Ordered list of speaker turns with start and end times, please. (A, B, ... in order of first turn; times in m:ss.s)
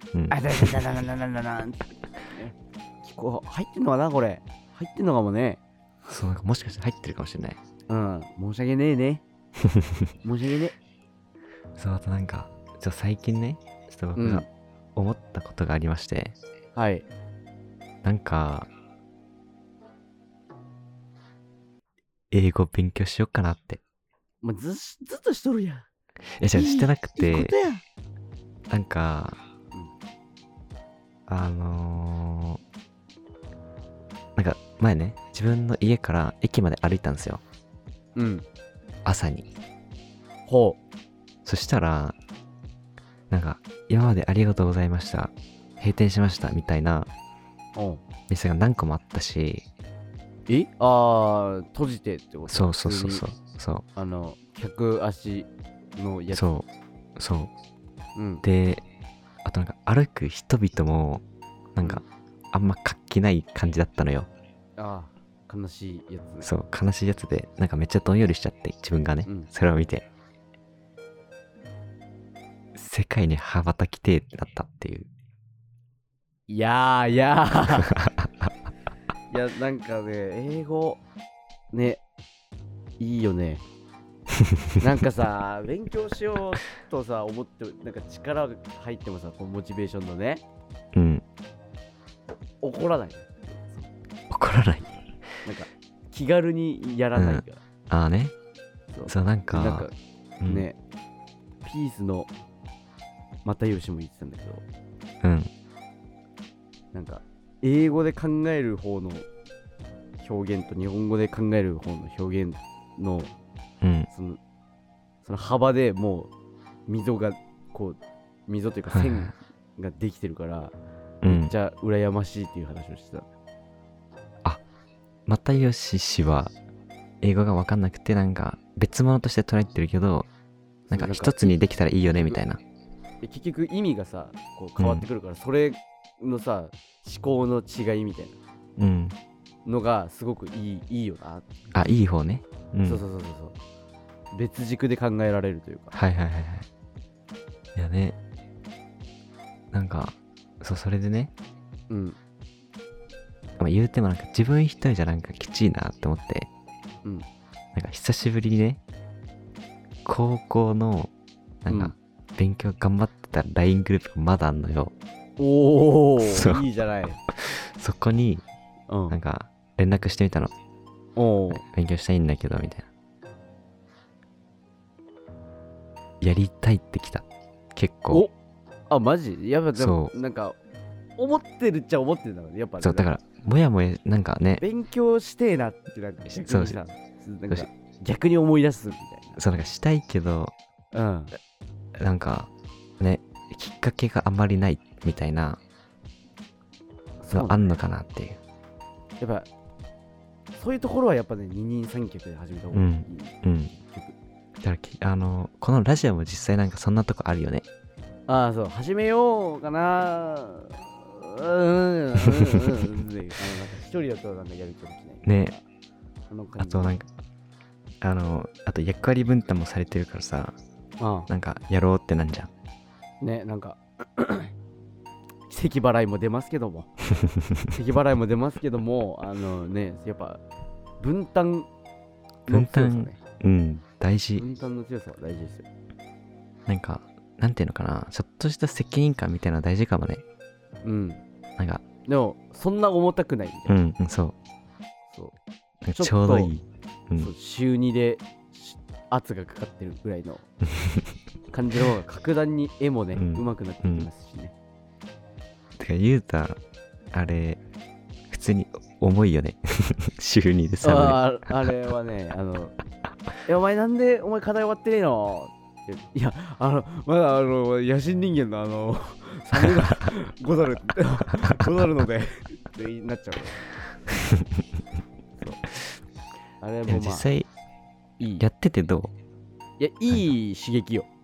0:00.1-0:00.8 A
0:00.3-0:05.6 B
0:06.1-0:07.6 A
0:07.9-0:09.2 B
0:09.6-0:10.1 A
0:10.2-0:10.8 B
0:11.8-0:16.4 A
0:14.2-0:14.5 B
0:16.8-0:17.1 B
0:18.0-0:18.7 A
0:22.3-0:23.8 A
0:24.4-0:25.9 B
0:26.4-0:27.5 A
0:26.5-0:27.8 B
0:28.7-0:29.4 A
0:31.3-0:32.6 A
0:34.4-0:37.4 A
0:38.2-0:38.4 B
0:39.0-0:39.5 A
0:40.5-0:40.8 B
0:41.4-0:42.2 A
0:43.3-0:47.1 A
0:47.8-0:48.0 B
0:48.3-0:49.7 A
0:50.5-0:53.2 B
0:52.5-0:53.8 A
0:54.0-0:56.5 B
0:56.3-0:56.7 A
0:57.2-0:57.5 A
0:58.2-0:58.4 B
0:58.4-0:58.8 A
0:59.4-1:01.2 A
1:01.8-1:04.3 A
1:04.8-1:06.5 B
1:06.4-1:10.1 A
1:12.7-1:15.1 A
1:16.5-1:17.9 B
1:17.9-1:18.5 A
1:19.3-1:21.0 B
1:21.7-1:22.0 B
1:23.0-1:23.6 B
1:24.4-1:24.7 A
1:24.8-1:30.4 B
1:30.9-1:31.2 A
1:32.6-1:33.9 B
1:34.3-1:35.0 A
1:35.4-1:37.6 B
1:37.2-1:38.4 A
1:38.9-1:39.9 B
1:39.1-1:39.9 A
1:40.5-1:40.8 B
1:41.6-1:42.3 B
1:43.4-1:44.6 B
1:45.2-1:45.5 A
1:46.9-1:49.3 B
1:50.2-1:53.3 B
1:53.8-1:54.1 A
1:54.1-1:54.4 B
1:55.2-1:56.3 B
1:56.9-2:00.8 B
1:58.9-1:59.3 A
2:01.2-2:01.5 A
2:01.3-2:03.3 B
2:05.3-2:06.5 A
2:07.2-2:10.3 A
2:10.9-2:11.6 B
2:10.9-2:12.6 A
2:13.2-2:18.4 B
2:18.8-2:19.2 A
2:19.6-2:21.7 B
2:21.7-2:23.0 A
2:22.8-2:23.6 B
2:24.3-2:26.0 B
2:25.9-2:26.7 A
2:27.8-2:28.2 A
2:29.7-2:31.3 A
2:31.9-2:32.2 B
2:33.6-2:36.5 A
2:37.8-2:38.8 A
2:40.0-2:41.1 A
2:41.6-2:44.9 A
2:41.7-2:42.0 B
2:45.4-2:47.2 B
2:46.2-2:46.6 A
2:47.3-2:48.4 A
2:48.9-2:49.2 B
2:49.1-2:50.5 A
2:51.2-2:51.6 B
2:51.6-2:52.9 A
2:56.2-2:58.3 A
2:58.9-3:00.6 B
2:59.8-3:00.1 A
3:01.2-3:03.1 B
3:02.8-3:04.6 A
3:04.6-3:09.4 B
3:06.4-3:06.8 A
3:09.4-3:10.5 A
3:10.9-3:11.3 B
3:12.0-3:15.6 A
3:17.2-3:17.7 B
3:17.3-3:18.4 A
3:19.2-3:19.5 B
3:20.5-3:24.2 B
3:22.7-3:23.7 A
3:24.6-3:27.7 A
3:28.3-3:35.6 B
3:35.2-3:35.6 A
3:36.3-3:37.0 B
3:36.6-3:37.1 A
3:38.0-3:40.6 A
3:41.0-3:41.3 B
3:41.3-3:42.5 A
3:43.2-3:44.5 B
3:45.5-3:46.9 B
3:47.2-3:47.7 A
3:47.7-3:50.4 B
3:51.0-3:51.7 B
3:52.5-3:53.2 B
3:52.5-3:54.4 A
3:54.4-3:55.7 B
3:56.7-4:00.2 A
4:00.8-4:01.2 B
4:01.6-4:01.9 A
4:02.0-4:03.8 B
4:03.7-4:04.4 A
4:05.1-4:05.4 B
4:05.8-4:07.3 A
4:06.0-4:06.5 B
4:07.2-4:10.5 B
4:10.8-4:11.0 A
4:11.5-4:14.5 B
4:13.2-4:14.1 A
4:15.8-4:16.6 A
4:17.1-4:17.6 A
4:18.3-4:21.2 A
4:20.8-4:22.8 B
4:23.5-4:33.7 B
4:36.6-4:37.3 B
4:36.9-4:37.5 A
4:38.2-4:38.5 B
4:38.4-4:39.1 A
4:39.8-4:41.1 B